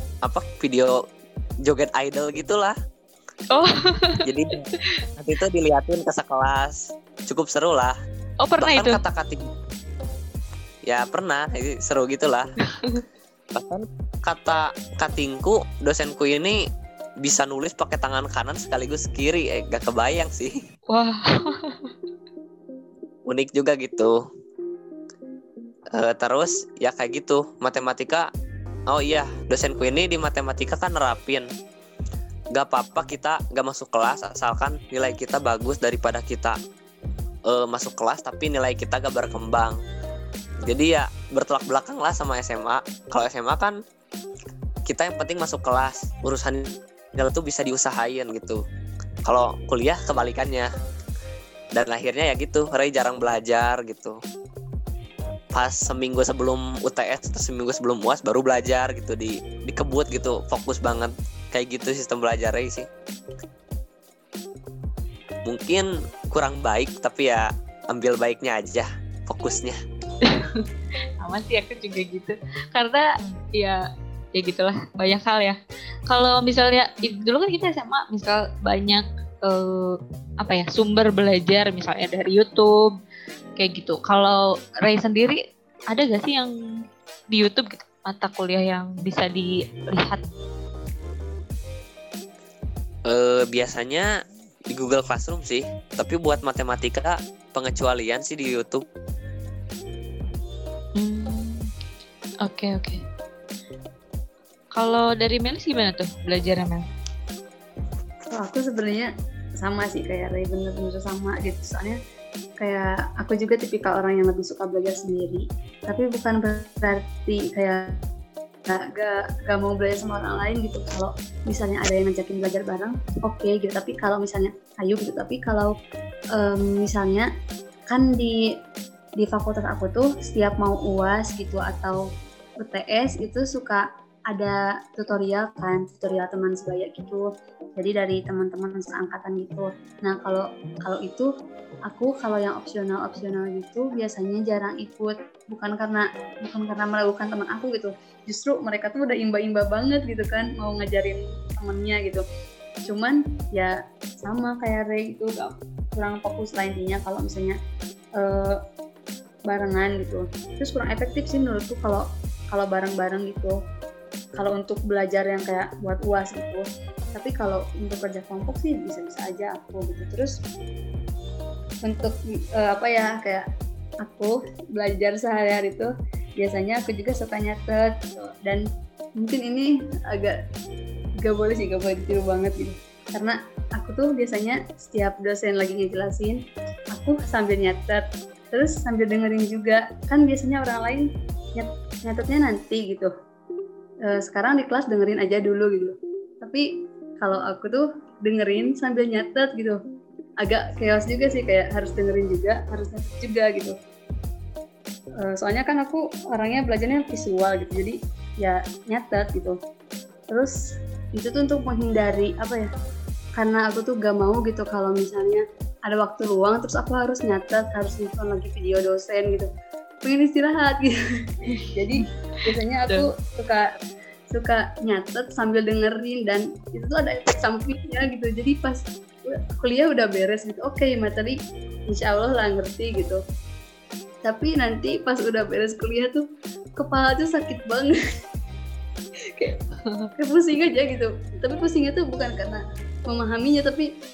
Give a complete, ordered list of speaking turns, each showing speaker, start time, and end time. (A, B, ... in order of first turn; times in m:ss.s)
0:00.2-0:01.0 A
0:01.6-0:02.8 A
0:03.5-0:04.2 B
0:04.2-0:04.6 A
0:05.2-0:08.0 A
0:08.4-0:09.0 B
0:08.6-0:09.4 A
0:10.8-0:12.4 A
0:12.7-0:13.0 B
0:13.6-0:16.6 A
0:17.2-0:20.6 A
0:20.9-0:21.9 B
0:23.3-0:24.2 A
0:25.9-0:28.3 A
0:28.9-0:31.5 A
0:32.6-0:36.6 A
0:37.5-0:39.8 A
0:40.7-0:43.8 A
0:44.9-0:48.6 A
0:49.3-0:50.7 A
0:51.7-0:54.2 A
0:55.6-1:02.9 A
1:05.4-1:09.8 A
1:10.2-1:10.6 B
1:11.2-1:13.8 B
1:14.3-1:15.6 B
1:16.1-1:22.9 B
1:23.6-1:25.4 B
1:25.9-1:26.5 B
1:27.3-1:30.2 B
1:33.1-1:34.1 A
1:34.7-1:38.8 A
1:41.0-1:41.7 B
1:42.4-1:43.0 B
1:44.8-1:46.8 B
1:48.3-1:52.0 C
1:52.6-1:58.0 C
1:58.7-2:05.7 C
2:06.3-2:07.3 C
2:07.9-2:08.4 C
2:09.2-2:12.0 C
2:12.6-2:21.3 C
2:21.9-2:32.2 C
2:32.9-2:37.6 C
2:38.2-2:38.6 C
2:39.5-2:43.6 C
2:44.4-2:50.4 C
2:51.8-2:53.4 C
2:54.0-2:58.6 C
2:59.2-3:00.4 C
3:01.2-3:06.4 C
3:06.9-3:13.1 C
3:14.0-3:16.7 C
3:17.2-3:19.8 C
3:20.4-3:23.8 C
3:25.2-3:29.6 C
3:30.3-3:30.6 C
3:31.1-3:32.7 C
3:33.4-3:39.5 C
3:40.0-3:41.0 C
3:41.5-3:42.0 B
3:41.7-3:43.7 C
3:44.3-3:53.2 C
3:54.2-3:56.2 C
3:56.8-3:58.0 C
3:59.8-4:00.1 B
4:00.2-4:03.9 C